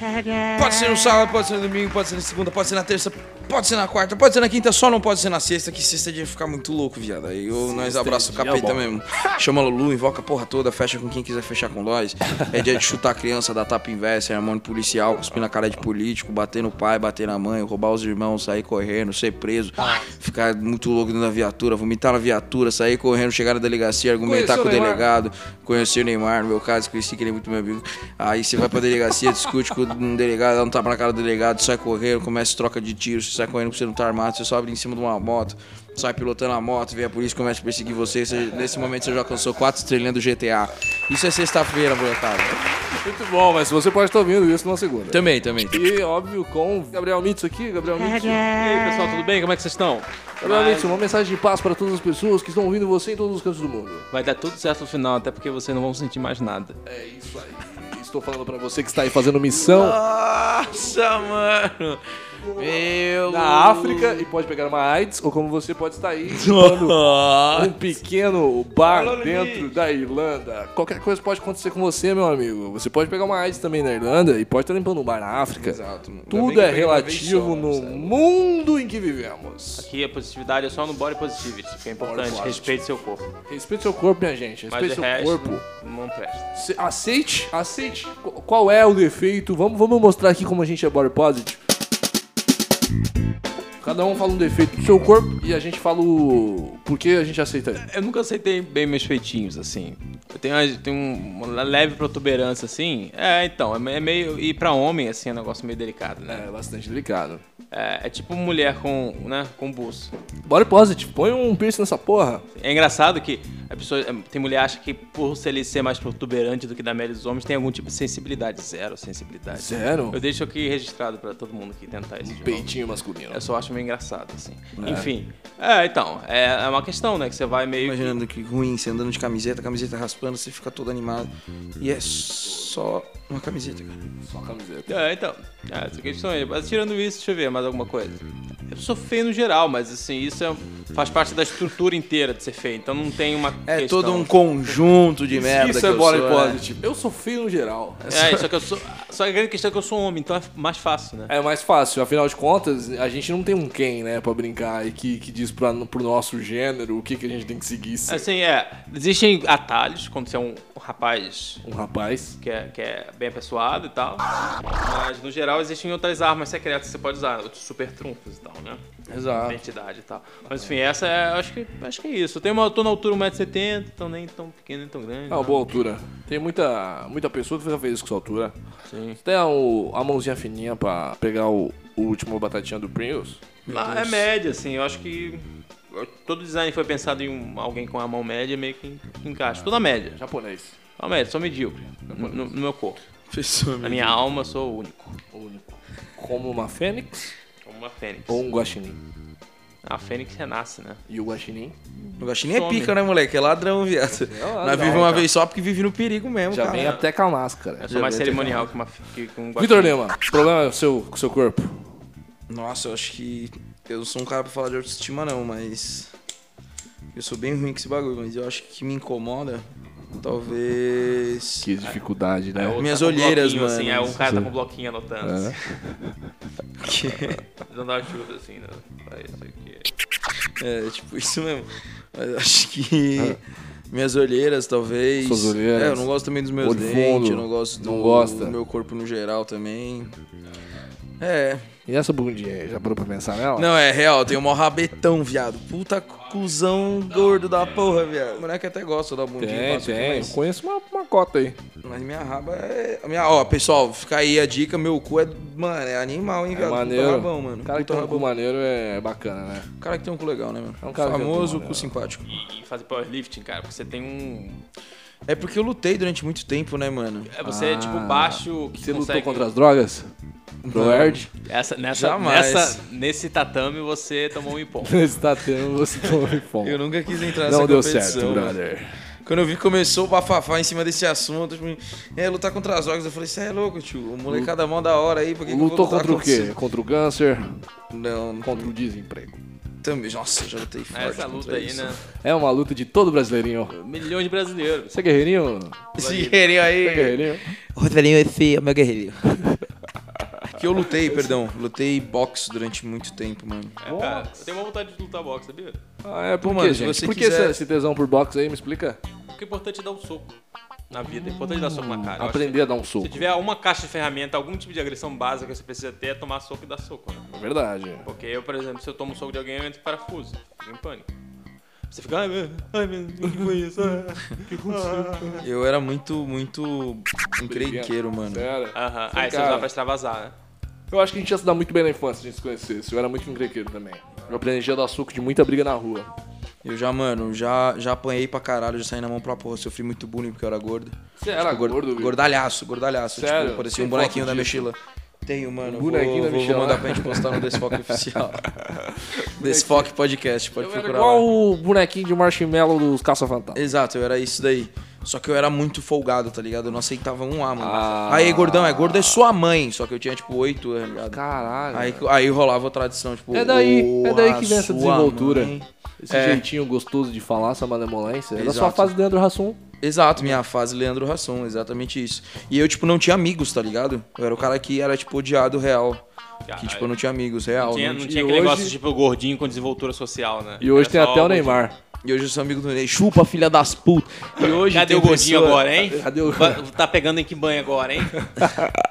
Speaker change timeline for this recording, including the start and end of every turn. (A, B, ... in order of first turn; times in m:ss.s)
0:00.5-0:42.6 A
0:07.5-0:08.9 B
0:24.2-0:25.1 B
0:42.8-0:48.5 B
0:45.1-0:45.8 A
0:48.2-0:51.1 C
0:50.4-0:54.0 B
0:54.1-0:56.8 C
0:56.8-1:00.0 B
0:59.6-1:04.2 A
1:03.3-1:07.0 B
1:06.3-1:07.8 A
1:07.5-1:19.9 B
1:08.8-1:09.7 A
1:15.5-1:18.2 A
1:19.8-1:23.2 C
1:22.0-1:22.8 B
1:23.4-1:25.6 B
1:24.7-1:26.5 C
1:26.5-1:31.6 B
1:33.8-1:37.8 B
1:37.8-1:46.5 C
1:46.3-1:47.4 B
1:47.7-1:50.1 C
1:50.5-1:52.4 B
1:52.6-2:02.7 C
1:59.6-2:00.2 B
2:02.2-2:03.4 B
2:03.3-2:08.2 C
2:04.8-2:05.1 A
2:07.8-2:14.0 A
2:14.2-2:14.9 B
2:14.9-2:24.8 C
2:23.6-2:26.6 A
2:25.3-2:28.0 B
2:28.0-2:28.5 A
2:28.1-2:31.3 C
2:31.3-2:38.2 B
2:38.1-2:41.6 C
2:41.6-2:42.4 B
2:42.4-2:44.3 C
2:44.8-2:55.7 C
2:49.1-2:49.6 A
2:55.3-2:58.5 B
2:58.9-2:59.2 C
2:59.2-3:03.4 B
3:03.6-3:04.2 A
3:03.7-3:10.2 C
3:10.2-3:10.7 B
3:11.0-3:13.0 C
3:12.1-3:12.5 B
3:13.3-3:14.2 A
3:13.8-3:15.2 C
3:15.3-3:17.3 B
3:17.6-3:18.4 C
3:18.3-3:19.0 B
3:19.8-3:21.0 C
3:21.1-3:21.8 B
3:22.0-3:23.0 C
3:22.2-3:27.0 A
3:24.2-3:25.3 B
3:26.5-3:27.9 B
3:26.7-3:27.0 C
3:27.8-3:30.0 C
3:27.9-3:28.7 A
3:29.6-3:31.9 B
3:32.5-3:36.1 A
3:37.1-3:41.7 A
3:41.6-3:42.8 B
3:42.5-3:45.6 C
3:42.8-3:44.2 A
3:44.2-3:44.5 B
3:45.2-3:46.2 B
3:46.8-3:47.4 A
3:47.6-3:49.9 C
3:50.6-4:00.2 A
3:55.2-3:56.1 B
3:56.6-3:58.6 B
4:01.2-4:01.7 A
4:01.9-4:03.7 B
4:03.5-4:10.4 A
4:09.4-4:11.6 B
4:11.8-4:18.3 A
4:16.5-4:19.7 B
4:19.8-4:22.3 A
4:20.8-4:21.9 B
4:22.3-4:24.6 C
4:25.3-4:27.3 A
4:27.3-4:29.4 C
4:27.4-4:30.1 B
4:30.6-4:31.3 A
4:30.7-4:31.2 B
4:31.4-4:35.0 C
4:31.9-4:32.8 A
4:34.8-4:36.8 B
4:36.6-4:38.6 A
4:37.4-4:39.0 B
4:39.2-4:46.5 A
4:44.2-4:44.5 B
4:45.4-4:47.6 B
4:47.9-4:48.7 A
4:48.4-4:49.4 B
4:49.8-4:51.9 A
4:50.9-4:52.0 C
4:52.1-4:53.7 B
4:53.7-4:54.9 C
4:54.9-4:55.9 B
4:56.0-4:59.2 A
4:56.0-4:56.5 C
4:56.8-4:57.5 B
5:00.5-5:03.8 A
5:01.0-5:01.4 B
5:03.8-5:05.8 C
5:03.8-5:04.5 B
5:06.0-5:09.0 B
5:06.4-5:07.6 A
5:09.3-5:10.4 C
5:10.9-5:17.2 C
5:11.5-5:13.2 B
5:17.3-5:18.1 B
5:18.0-5:21.1 C
5:21.9-5:25.4 C
5:24.5-5:25.4 B
5:25.4-5:28.5 A
5:27.4-5:29.7 B
5:28.7-5:30.3 C
5:30.9-5:36.1 B
5:36.6-5:48.4 A
5:41.2-5:42.2 B
5:43.1-5:44.7 B
5:45.6-5:48.0 B
5:48.7-5:49.9 B
5:49.2-5:51.3 A
5:50.6-5:53.6 B
5:53.5-6:06.4 A
5:57.6-5:59.2 B
6:00.9-6:02.0 B
6:03.3-6:09.6 B
6:08.3-6:08.9 A
6:09.8-6:16.0 A
6:16.5-6:16.9 C
6:16.6-6:18.0 A
6:17.6-6:21.7 C
6:18.0-6:18.7 B
6:20.6-6:21.8 B
6:22.0-6:25.7 A
6:24.4-6:28.3 C
6:25.8-6:26.6 B
6:28.2-6:28.5 B